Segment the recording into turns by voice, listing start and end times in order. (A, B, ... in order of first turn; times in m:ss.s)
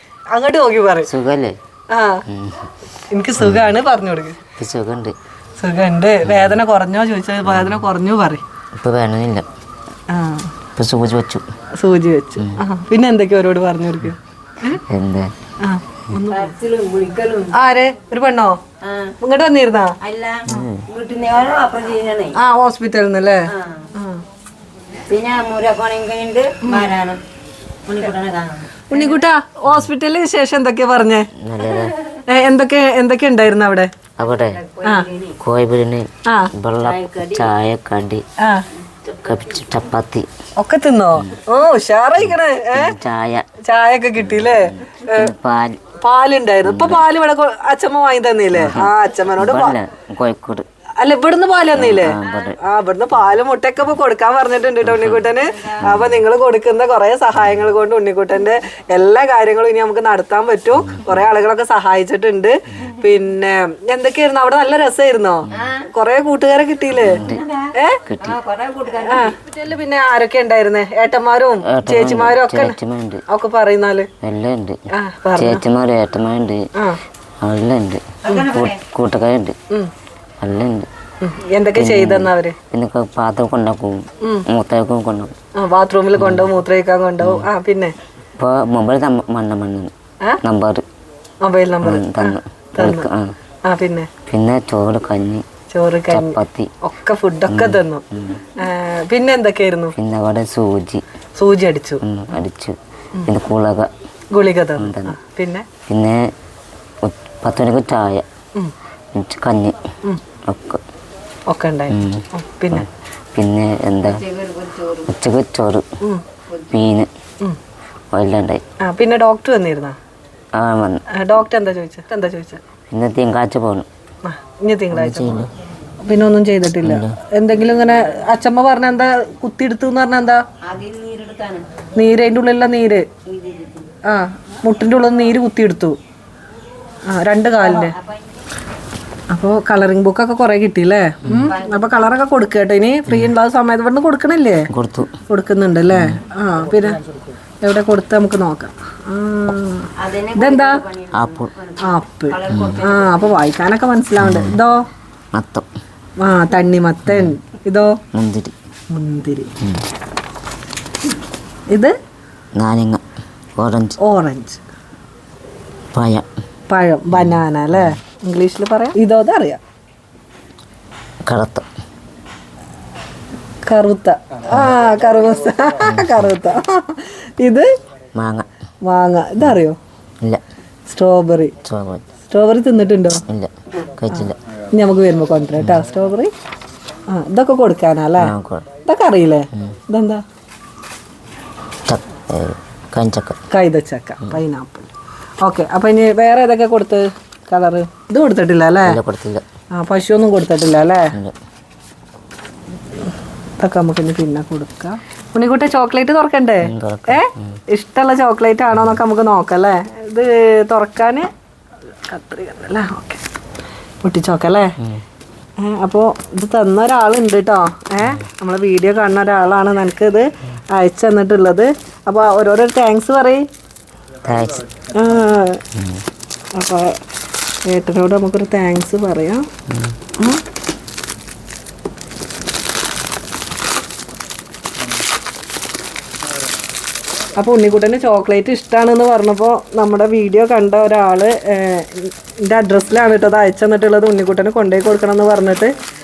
0:00.3-0:01.1 A
0:01.1-0:01.6 B
0:01.9-0:02.2 A
0:02.3-0:02.7 B
0:03.1-0:04.4 A
0:04.6-0:05.1 B
0:05.6-0:08.4 A
0:06.3-0:06.6 B
0:07.5-0:07.8 B
0:08.8-0:09.4 B
0:10.1-0:10.5 A
0:10.8-0:11.5 B
0:11.7-0:14.8 A
0:14.9-0:15.3 B
0:15.6-0:16.5 A
0:16.3-0:17.6 C
0:17.5-0:18.6 A
0:18.8-0:19.2 C
0:19.2-0:20.0 A
0:20.0-0:22.4 C
0:20.5-0:20.8 B
0:22.4-0:24.2 A
0:23.5-0:23.9 C
0:25.1-0:27.2 C
0:26.6-0:26.9 A
0:27.9-0:29.2 C
0:28.9-0:31.3 A
0:31.4-0:32.0 B
0:32.3-0:33.9 A
0:34.2-0:34.6 B
0:34.5-0:35.4 C
0:34.8-0:35.1 A
0:35.4-0:38.2 B
0:36.8-0:37.5 C
0:38.4-0:38.7 A
0:38.9-0:39.3 C
0:39.2-0:40.3 B
0:40.6-0:43.0 A
0:42.2-0:43.5 B
0:43.6-0:45.3 A
0:44.2-0:45.8 B
0:46.0-0:49.8 A
0:46.6-0:47.0 B
0:48.6-0:50.7 B
0:51.0-1:07.2 A
0:51.7-0:52.6 B
0:52.3-0:52.5 C
0:54.8-0:56.2 B
1:00.8-1:01.2 B
1:05.5-1:05.9 C
1:07.0-1:07.4 B
1:07.2-1:09.6 C
1:07.7-1:08.0 A
1:08.1-1:08.4 B
1:09.0-1:12.8 A
1:11.7-1:13.2 B
1:13.3-1:14.1 A
1:14.2-1:14.8 B
1:14.9-1:15.6 A
1:15.4-1:16.6 B
1:17.4-1:19.6 B
1:18.2-1:18.8 C
1:20.4-1:20.9 B
1:21.2-1:22.6 A
1:21.8-1:25.3 B
1:25.6-1:27.9 A
1:26.2-1:26.5 B
1:27.2-1:27.5 B
1:28.4-1:29.9 B
1:30.4-1:30.8 B
1:31.4-1:33.1 A
1:31.8-1:33.4 B
1:33.7-1:34.1 A
1:34.3-1:35.4 B
1:35.7-1:38.0 A
1:36.1-1:36.7 B
1:37.5-1:38.4 B
1:38.6-1:40.0 A
1:40.0-1:41.0 B
1:41.4-1:42.0 A
1:42.0-1:42.7 B
1:43.3-1:43.9 B
1:44.3-1:45.7 A
1:44.8-1:45.2 B
1:45.9-1:46.2 B
1:47.0-1:48.2 B
1:49.2-1:49.8 B
1:50.5-1:50.8 B
1:51.5-1:52.9 A
1:51.9-1:54.3 B
1:54.1-1:55.1 C
1:55.0-1:55.8 B
1:56.7-1:57.1 B
1:58.1-1:58.6 B
1:58.8-2:00.0 A
2:00.6-2:01.0 B
2:01.1-2:02.6 A
2:02.9-2:03.9 B
2:04.2-2:05.5 A
2:04.9-2:05.5 B
2:06.0-2:10.4 A
2:06.8-2:07.2 B
2:10.6-2:11.9 C
2:12.0-2:13.1 A
2:13.3-2:13.9 C
2:14.1-2:16.0 A
2:17.1-2:18.0 A
2:17.7-2:18.2 C
2:19.3-2:24.7 A
2:21.3-2:21.5 B
2:21.4-2:22.0 C
2:24.7-2:25.1 B
2:25.3-2:27.0 A
2:25.9-2:26.2 B
2:27.6-2:30.8 A
2:30.0-2:33.3 C
2:31.1-2:31.5 B
2:31.8-2:34.8 A
2:32.5-2:32.8 B
2:34.2-2:34.6 B
2:35.3-2:35.7 B
2:36.2-2:38.0 A
2:37.1-2:37.4 B
2:38.1-2:38.5 B
2:38.9-2:39.5 A
2:42.6-2:43.0 B
2:43.6-2:44.0 B
2:44.0-2:44.6 A
2:45.9-2:46.3 B
2:46.7-2:49.6 A
2:47.1-2:48.0 B
2:51.3-2:51.6 B
2:53.7-2:57.7 A
2:55.8-2:56.3 B
2:58.2-2:58.5 B
2:58.9-2:59.8 A
3:00.9-3:01.5 A
3:01.6-3:02.0 B
3:02.3-3:03.2 A
3:03.3-3:04.4 B
3:04.1-3:06.3 A
3:07.1-3:08.3 A
3:08.2-3:08.7 B
3:08.9-3:10.2 A
3:11.9-3:13.4 B
3:13.5-3:14.9 A
3:15.4-3:19.0 A
3:18.9-3:19.4 B
3:19.8-3:21.1 A
3:23.6-3:31.3 A
3:26.6-3:27.6 B
3:32.1-3:33.2 A
3:34.0-3:34.7 A
3:35.6-3:43.4 A
3:44.2-3:44.7 B
3:44.9-3:45.6 A
3:45.8-3:46.0 B
3:46.6-3:47.0 A
3:47.7-3:49.5 A
3:57.4-4:05.7 A